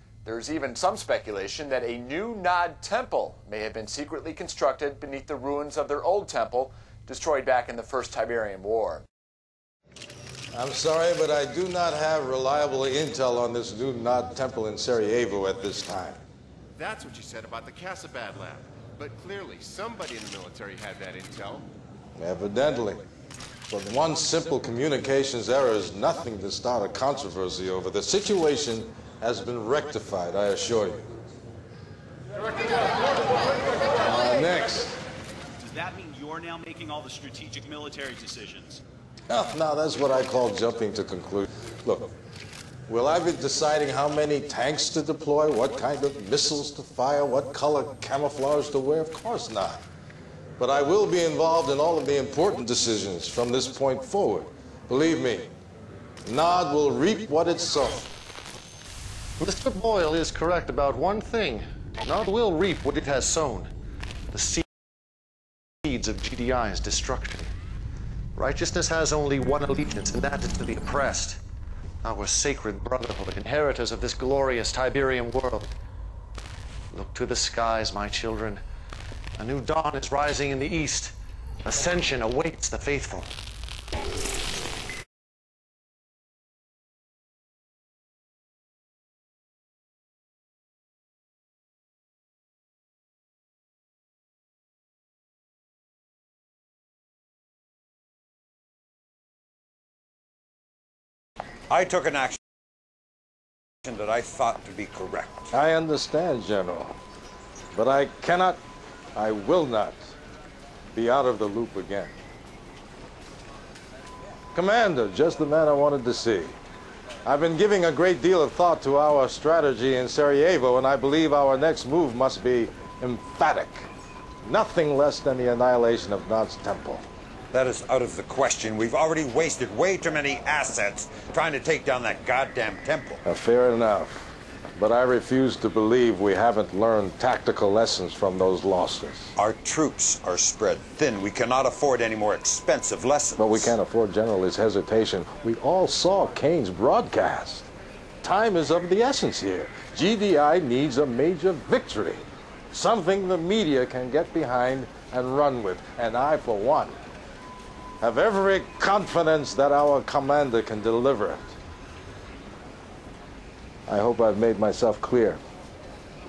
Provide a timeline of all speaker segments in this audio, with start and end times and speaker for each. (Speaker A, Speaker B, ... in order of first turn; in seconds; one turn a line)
Speaker A: 0.2-9.0
Speaker B: 10.5-16.2
Speaker C: 16.8-21.7
Speaker B: 22.2-23.0
Speaker B: 23.7-31.0
Speaker B: 34.0-35.0
Speaker D: 35.6-38.8
Speaker B: 39.3-42.1
Speaker B: 42.9-49.8
Speaker B: 50.6-55.5
Speaker B: 56.2-58.0
Speaker E: 59.4-63.7
Speaker E: 64.3-64.6
Speaker E: 65.8-67.5
Speaker E: 68.3-71.4
Speaker E: 72.0-75.7
Speaker E: 76.9-78.6
Speaker E: 79.4-83.3
Speaker F: 101.7-102.4
Speaker F: 103.8-105.5
Speaker B: 105.5-107.0
Speaker B: 107.7-108.6
Speaker B: 109.2-110.2
Speaker B: 110.9-112.1
Speaker B: 114.5-116.5
Speaker B: 117.2-123.9
Speaker B: 124.4-127.0
Speaker F: 127.5-133.2
Speaker B: 133.2-139.3
Speaker F: 139.3-143.7
Speaker B: 143.4-147.7
Speaker B: 148.2-157.0
Speaker B: 158.0-161.6
Speaker B: 163.9-165.4